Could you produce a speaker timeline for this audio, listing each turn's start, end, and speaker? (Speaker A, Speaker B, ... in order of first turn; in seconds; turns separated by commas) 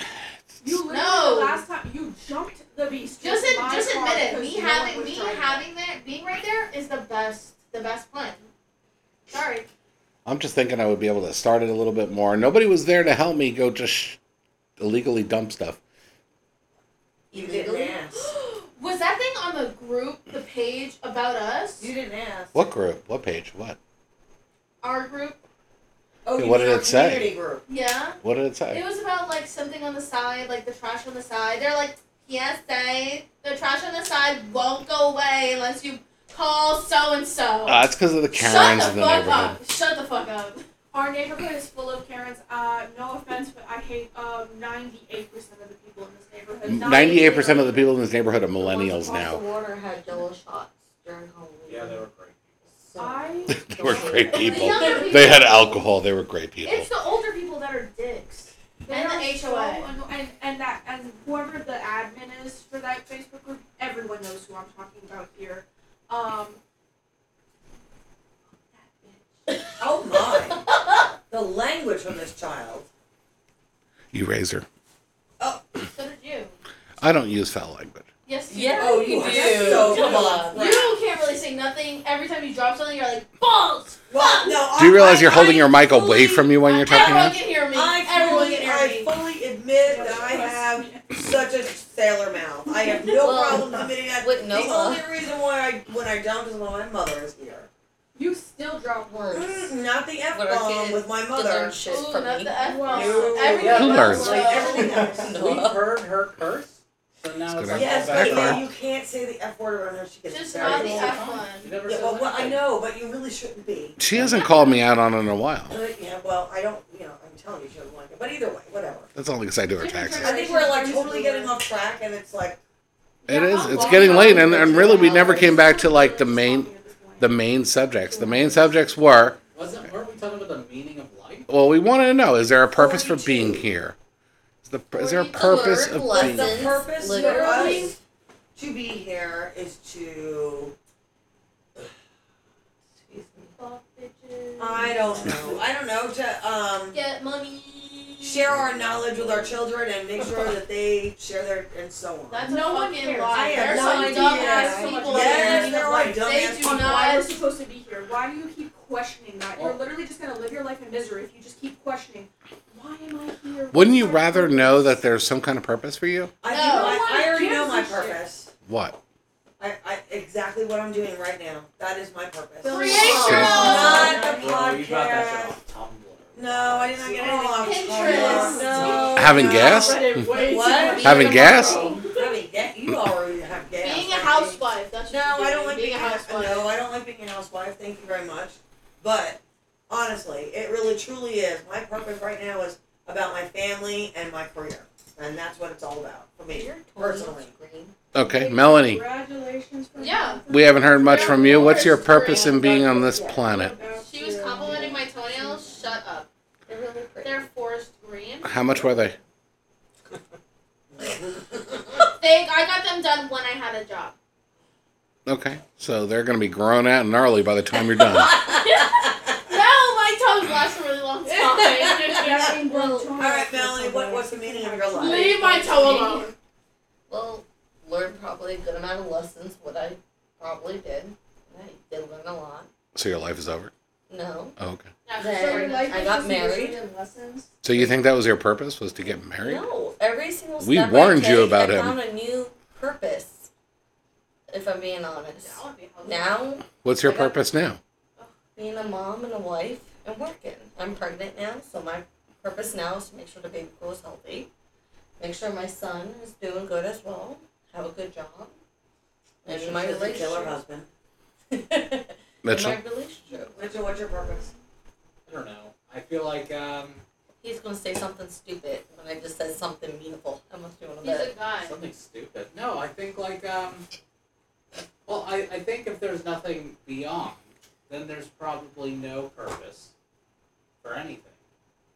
Speaker A: 0.1-0.6, Speaker B: 0.6-5.6, Speaker C: 0.8-1.6, Speaker C: 3.2-8.4, Speaker C: 9.3-9.7, Speaker A: 10.2-14.2, Speaker A: 14.8-15.8, Speaker D: 17.3-17.9, Speaker E: 17.3-18.3, Speaker C: 18.1-21.9, Speaker E: 21.8-22.7, Speaker A: 22.5-23.8, Speaker C: 24.8-25.4, Speaker E: 26.2-27.6, Speaker A: 26.4-27.3, Speaker C: 27.7-28.2, Speaker A: 28.2-28.8, Speaker C: 28.7-40.6, Speaker A: 37.6-39.6, Speaker B: 40.9-48.0, Speaker A: 46.6-49.4, Speaker D: 48.6-52.0, Speaker F: 51.6-52.7, Speaker D: 52.7-55.1, Speaker B: 53.0-55.3, Speaker A: 53.5-56.9, Speaker C: 54.3-55.8, Speaker C: 56.6-59.9, Speaker B: 58.8-66.6, Speaker B: 68.7-69.5, Speaker E: 69.8-70.6, Speaker E: 71.3-72.9, Speaker A: 74.1-74.7, Speaker C: 75.9-76.5, Speaker A: 77.0-78.0, Speaker C: 78.2-89.1, Speaker D: 78.5-80.8, Speaker E: 78.7-80.9, Speaker B: 79.2-80.1, Speaker E: 84.1-85.7, Speaker A: 84.8-87.4, Speaker E: 87.7-97.7, Speaker B: 88.1-88.6, Speaker B: 89.8-91.4, Speaker B: 92.8-93.2, Speaker D: 93.1-95.1, Speaker B: 98.1-99.6, Speaker D: 99.0-99.5, Speaker E: 99.3-101.8, Speaker D: 100.3-102.6, Speaker C: 101.8-105.1, Speaker B: 102.6-105.2, Speaker E: 102.9-105.3, Speaker F: 103.6-103.9, Speaker A: 103.7-104.3, Speaker D: 105.0-105.9, Speaker F: 105.1-108.7, Speaker A: 107.5-108.6, Speaker E: 107.7-111.2, Speaker C: 110.3-111.7, Speaker F: 110.6-112.6, Speaker E: 111.8-114.0, Speaker A: 114.0-115.8, Speaker C: 114.2-114.8, Speaker E: 115.7-119.1, Speaker A: 119.2-120.4, Speaker B: 119.8-121.6, Speaker E: 120.2-122.6, Speaker C: 123.2-125.0, Speaker A: 123.3-129.4, Speaker B: 123.7-127.4, Speaker E: 124.3-125.6, Speaker B: 128.1-128.8, Speaker F: 129.5-131.5, Speaker A: 131.5-133.9, Speaker E: 132.7-133.6, Speaker A: 134.6-136.7, Speaker C: 134.9-135.7, Speaker D: 135.3-137.9, Speaker E: 136.1-137.9, Speaker B: 137.0-137.9, Speaker C: 137.3-137.9, Speaker E: 138.5-140.7, Speaker D: 143.0-143.5, Speaker B: 143.6-145.3, Speaker E: 144.6-147.0, Speaker C: 146.9-148.6, Speaker E: 148.2-152.4, Speaker C: 152.3-157.4, Speaker B: 152.4-165.0, Speaker E: 153.3-157.0, Speaker F: 159.6-159.8, Speaker A: 163.7-166.3, Speaker E: 166.4-168.5, Speaker C: 166.5-167.0, Speaker B: 166.6-168.2, Speaker A: 168.7-169.0, Speaker E: 169.6-175.6, Speaker B: 172.6-174.4, Speaker C: 172.6-174.2, Speaker A: 173.2-173.8, Speaker F: 173.9-177.2, Speaker E: 176.3-181.2, Speaker B: 177.1-182.3, Speaker C: 177.6-182.1, Speaker A: 179.1-180.2, Speaker A: 181.0-181.9, Speaker E: 182.1-197.5, Speaker A: 182.9-183.1, Speaker C: 183.8-186.7, Speaker D: 196.5-197.9, Speaker A: 198.1-199.0, Speaker B: 198.2-205.0, Speaker C: 200.0-200.4, Speaker A: 200.5-203.8, Speaker C: 200.9-202.7, Speaker C: 204.0-206.3, Speaker D: 205.2-205.8, Speaker D: 206.7-207.5, Speaker C: 207.2-209.1, Speaker A: 208.4-209.2, Speaker E: 210.9-211.8, Speaker C: 212.1-214.1, Speaker A: 215.2-218.3, Speaker C: 218.3-222.5, Speaker B: 221.3-226.3, Speaker D: 222.0-223.1, Speaker E: 223.1-225.4, Speaker C: 225.0-226.3, Speaker D: 225.7-226.2, Speaker D: 227.1-232.7, Speaker A: 232.9-233.7, Speaker D: 234.1-234.6, Speaker A: 234.6-234.9, Speaker C: 235.1-236.1, Speaker D: 235.2-236.8, Speaker B: 235.2-237.6, Speaker A: 237.6-239.7, Speaker D: 239.4-243.5, Speaker A: 240.6-242.0, Speaker D: 244.5-247.3, Speaker C: 245.3-246.5, Speaker A: 246.8-247.8, Speaker D: 248.6-254.5, Speaker D: 255.2-258.5, Speaker D: 259.4-260.6, Speaker E: 259.5-260.9, Speaker D: 261.5-263.7, Speaker A: 262.4-262.8, Speaker E: 263.5-264.5, Speaker F: 265.2-267.0, Speaker D: 267.4-271.3, Speaker C: 271.0-271.7, Speaker F: 271.6-273.9, Speaker F: 275.1-279.9, Speaker F: 280.8-281.4